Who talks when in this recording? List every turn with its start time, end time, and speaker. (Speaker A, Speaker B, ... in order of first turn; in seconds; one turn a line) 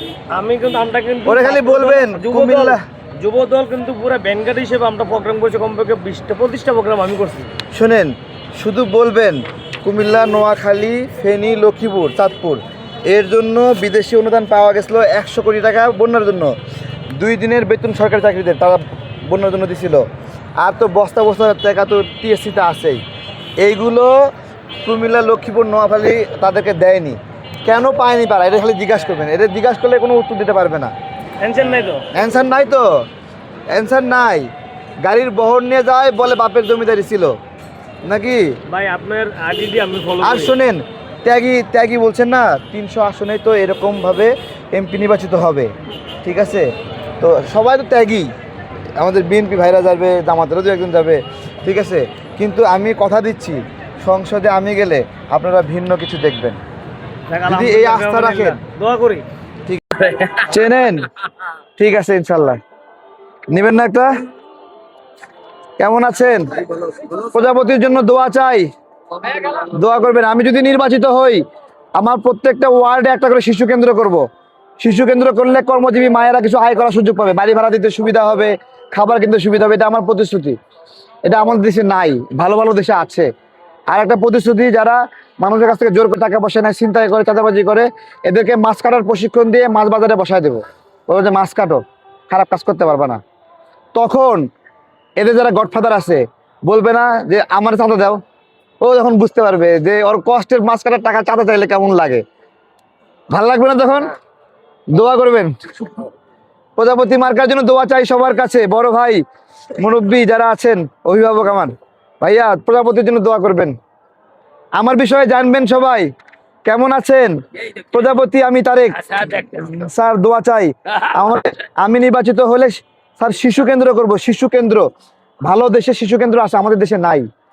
Speaker A: 0.3-7.5
Speaker B: 1.3-2.8
Speaker B: 7.7-16.6
Speaker B: 17.1-20.1
Speaker B: 20.6-23.0
Speaker B: 23.6-24.3
Speaker B: 24.8-30.9
Speaker A: 31.4-32.1
Speaker B: 32.1-33.1
Speaker B: 33.7-37.4
Speaker B: 38.0-38.6
Speaker A: 38.7-40.6
Speaker B: 40.2-45.7
Speaker B: 46.2-48.3
Speaker B: 49.0-56.6
Speaker A: 57.3-59.2
Speaker B: 57.5-58.6
Speaker B: 59.7-61.1
Speaker B: 61.8-62.6
Speaker B: 63.5-64.1
Speaker B: 65.8-68.7
Speaker B: 69.3-71.4
Speaker B: 72.0-74.2
Speaker B: 74.8-80.6
Speaker B: 81.2-83.3
Speaker B: 83.9-93.2
Speaker B: 94.0-94.5
Speaker B: 95.2-98.2
Speaker B: 98.8-102.2
Speaker B: 103.3-104.2
Speaker B: 104.9-105.6
Speaker B: 106.8-109.2
Speaker B: 109.8-113.8
Speaker B: 114.8-116.1
Speaker B: 116.7-124.8
Speaker B: 125.5-127.3